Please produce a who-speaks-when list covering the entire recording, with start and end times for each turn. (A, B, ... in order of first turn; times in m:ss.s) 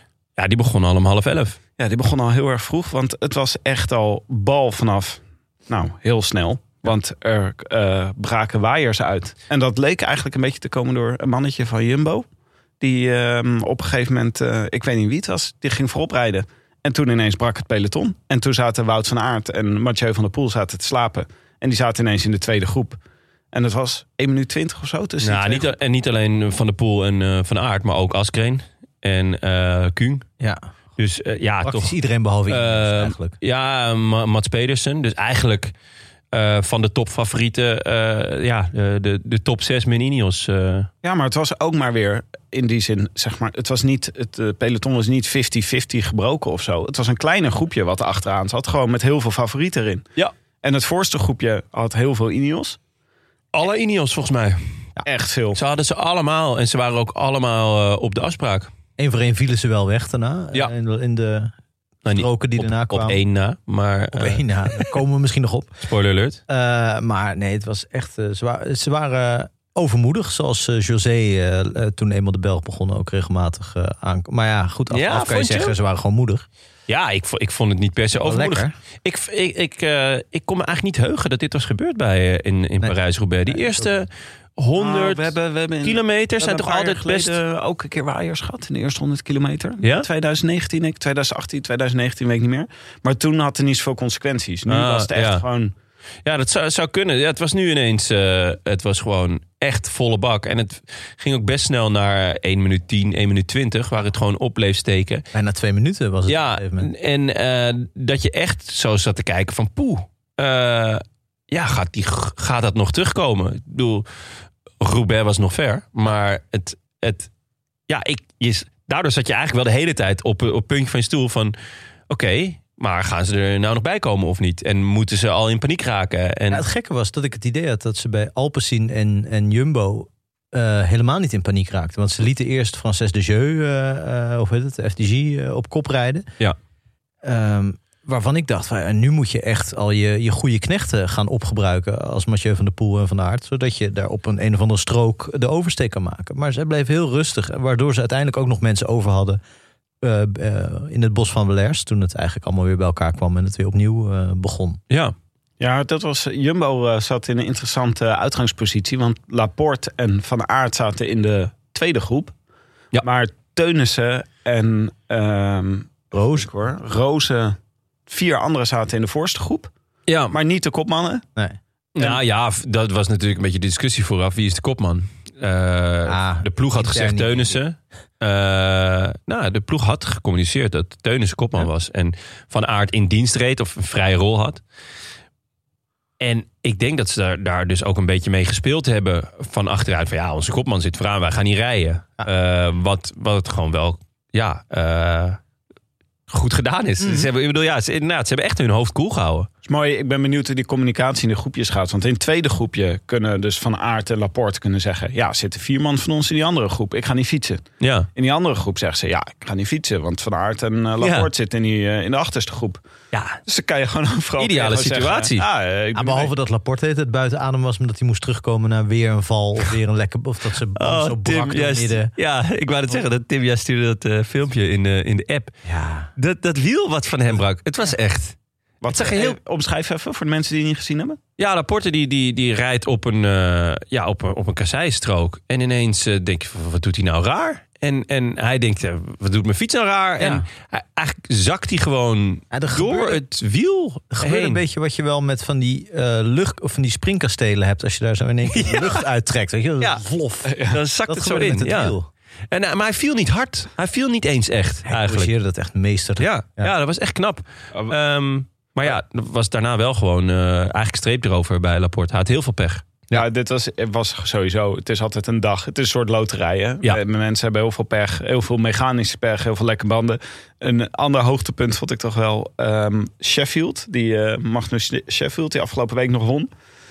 0:00.4-0:01.6 A
0:01.8-0:12.2 B
0:12.8-0:23.0 B
0:23.5-0:25.8 B
0:25.2-0:30.2 A
0:31.0-0:32.0 A
0:31.6-0:33.4 C
0:32.5-0:35.7 A
0:36.3-0:40.9 A
0:41.0-0:50.1 B
0:50.6-0:52.8 B
0:53.5-0:54.8 A
0:55.0-0:55.6 B
0:55.5-0:58.7 A
0:59.0-1:01.5 C
1:02.0-1:04.9 A
1:02.1-1:03.2 C
1:04.1-1:05.7 C
1:05.8-1:06.4 A
1:06.5-1:16.5 C
1:14.9-1:15.8 A
1:16.9-1:27.4 A
1:18.2-1:18.7 C
1:23.5-1:23.9 C
1:24.8-1:35.7 B
1:34.7-1:35.4 A
1:36.2-1:45.2 A
1:45.3-1:46.9 C
1:46.3-1:54.1 A
1:54.8-1:57.3 A
1:57.9-2:01.6 A
2:02.1-2:06.6 A
2:06.5-2:16.3 C
2:17.2-2:29.4 C
2:30.0-2:34.8 C
2:34.9-2:35.2 A
2:35.6-2:42.3 B
2:43.0-2:49.7 B
2:46.1-2:46.5 C
2:50.1-2:50.4 A
2:50.3-2:51.2 B
2:52.0-3:04.6 A
2:56.1-2:57.6 C
3:06.2-3:15.4 A
3:16.3-3:19.5 A
3:17.0-3:17.3 C
3:19.6-3:32.8 B
3:27.8-3:28.1 A
3:31.0-3:31.3 A
3:33.1-3:33.4 A
3:33.5-3:36.3 B
3:34.4-3:35.4 A
3:36.0-3:42.1 C
3:40.8-3:45.5 A
3:45.6-3:46.1 C
3:46.2-3:49.4 A
3:48.8-3:51.2 B
3:51.4-4:04.6 A
4:00.2-4:00.4 C
4:02.5-4:03.3 C
4:04.1-4:12.1 C
4:08.5-4:09.0 A
4:10.5-4:10.8 B
4:10.7-4:12.0 A
4:12.5-4:15.3 A
4:14.9-4:16.7 C
4:16.2-4:22.9 A
4:23.1-4:36.5 B